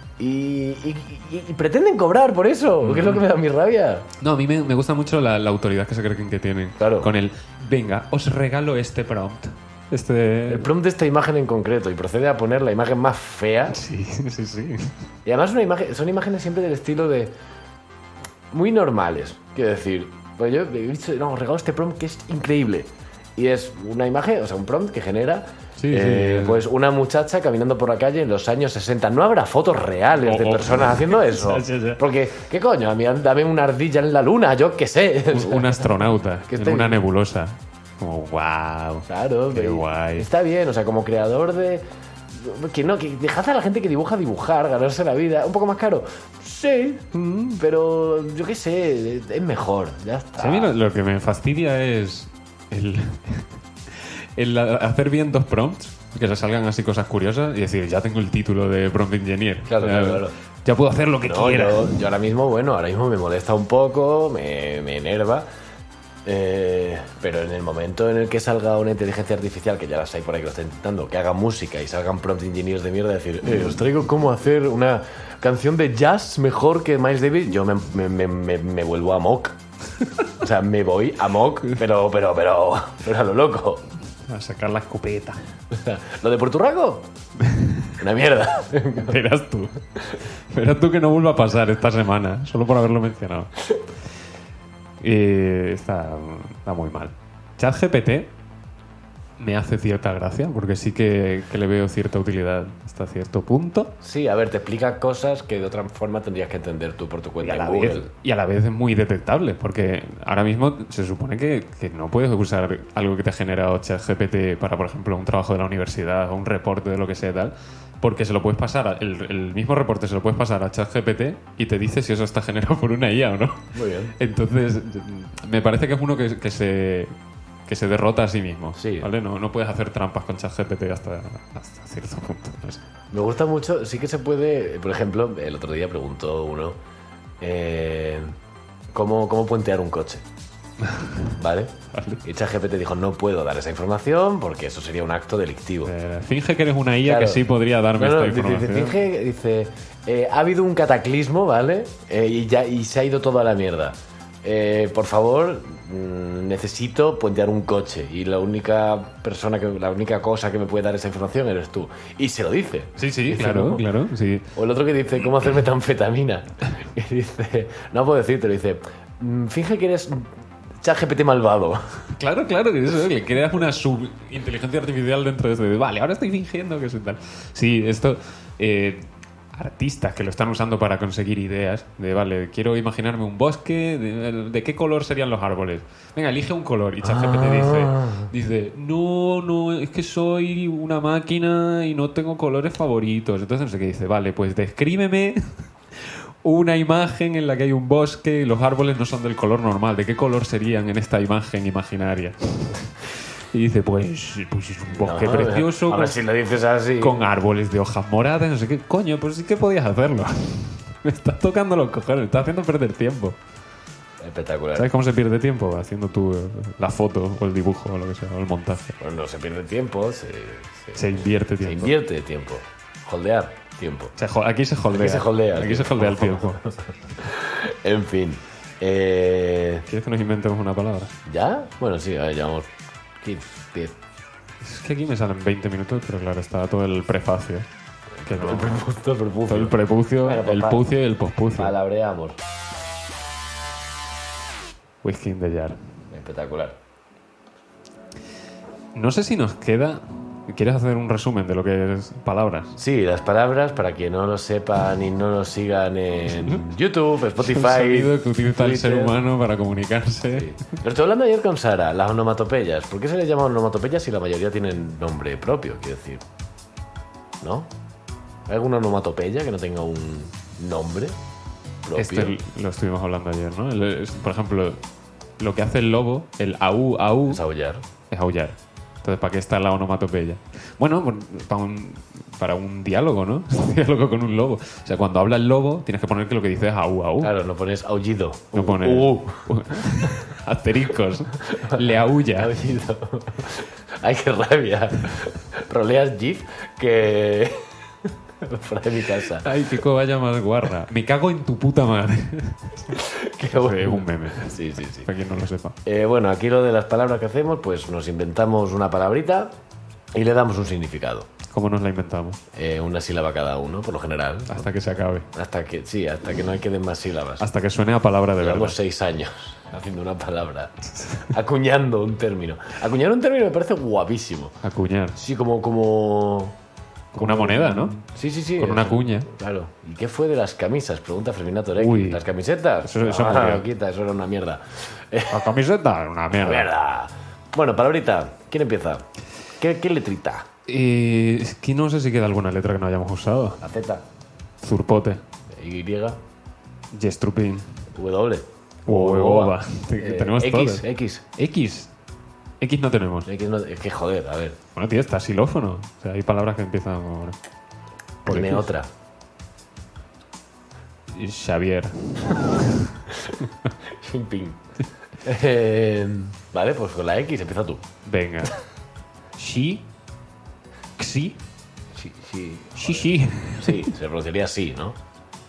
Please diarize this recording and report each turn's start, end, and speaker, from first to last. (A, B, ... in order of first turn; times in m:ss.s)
0:00.2-0:04.1 A
0:02.8-0:03.3 B
0:04.2-0:10.7 B
0:06.8-0:07.1 A
0:10.5-0:13.8 A
0:13.7-0:15.0 B
0:15.2-0:17.3 A
0:18.5-0:37.0 A
0:25.8-0:26.6 B
0:30.2-0:32.0 B
0:35.3-0:40.3 B
0:39.1-0:50.7 A
0:47.1-0:47.6 B
0:50.4-1:02.0 B
0:59.7-1:00.4 A
1:01.2-1:05.5 A
1:06.2-1:19.6 A
1:20.3-1:23.8 A
1:24.3-1:25.4 B
1:25.7-1:27.1 A
1:27.4-1:28.0 B
1:28.0-1:29.2 A
1:29.0-1:33.5 B
1:35.0-1:38.3 B
1:39.4-1:43.9 B
1:44.0-1:48.1 A
1:47.4-2:07.1 B
2:03.7-2:04.1 A
2:07.7-2:12.8 B
2:08.8-2:09.1 A
2:13.1-2:16.8 A
2:17.4-2:18.4 A
2:18.9-2:20.2 A
2:20.8-2:21.4 B
2:21.4-2:25.9 A
2:21.9-2:22.2 B
2:25.8-2:29.0 B
2:27.0-2:27.4 A
2:28.0-2:43.9 A
2:43.0-2:44.5 B
2:44.6-2:50.3 A
2:50.8-2:52.0 A
2:52.2-3:26.2 B
3:07.0-3:08.3 A
3:24.9-3:27.2 A
3:27.0-3:33.4 B
3:34.2-3:34.9 A
3:34.8-3:39.0 B
3:39.0-3:44.1 A
3:41.0-3:42.0 B
3:44.2-3:46.6 B
3:44.9-3:49.9 A
3:49.9-3:51.2 B
3:51.3-3:52.7 A
3:53.2-3:54.0 A
3:54.6-3:57.7 B
3:58.2-4:00.8 A
3:58.3-3:58.8 B
3:59.5-4:01.8 B
4:01.6-4:02.4 A
4:05.0-4:05.8 B
4:06.1-4:06.8 A
4:08.9-4:12.8 B
4:12.8-4:19.2 A
4:16.3-4:16.7 B
4:17.4-4:20.6 B
4:20.3-4:26.2 A
4:27.4-4:27.7 A
4:28.5-4:31.2 A
4:31.8-4:32.4 A
4:32.0-4:34.8 B
4:35.4-4:37.4 B
4:37.3-4:37.8 A
4:38.1-4:47.3 B
4:47.2-4:50.1 A
4:48.5-4:52.6 B
4:51.5-4:59.5 A
4:59.2-5:05.8 B
5:02.9-5:05.1 A
5:05.8-5:09.5 A
5:10.1-5:11.3 A
5:11.5-5:12.4 B
5:12.5-5:14.7 A
5:14.5-5:15.3 B
5:15.3-5:17.5 A
5:17.4-5:18.8 B
5:18.4-5:24.6 A
5:24.6-5:25.2 B
5:25.2-5:26.6 A
5:27.1-5:28.0 B
5:27.2-5:35.5 A
5:28.6-5:29.3 B
5:31.8-5:32.2 B
5:32.8-5:33.7 B
5:35.3-5:36.7 B
5:36.3-5:39.0 A
5:39.6-5:40.5 A
5:40.7-5:43.6 B
5:43.6-5:44.0 A
5:44.6-5:45.2 B
5:45.5-5:46.2 A
5:46.9-5:47.8 B
5:48.0-5:51.2 A
5:48.9-5:50.8 B
5:51.4-5:51.9 B
5:52.6-5:53.3 B
5:53.3-5:54.6 A
5:54.8-5:57.4 B
5:58.3-5:58.7 B
5:58.3-5:58.9 A
6:01.1-6:03.1 B
6:03.1-6:04.6 A
6:05.2-6:07.8 A
6:08.0-6:08.6 B
6:09.4-6:09.8 B
6:11.0-6:11.4 B
6:12.0-6:15.0 A
6:12.8-6:13.9 B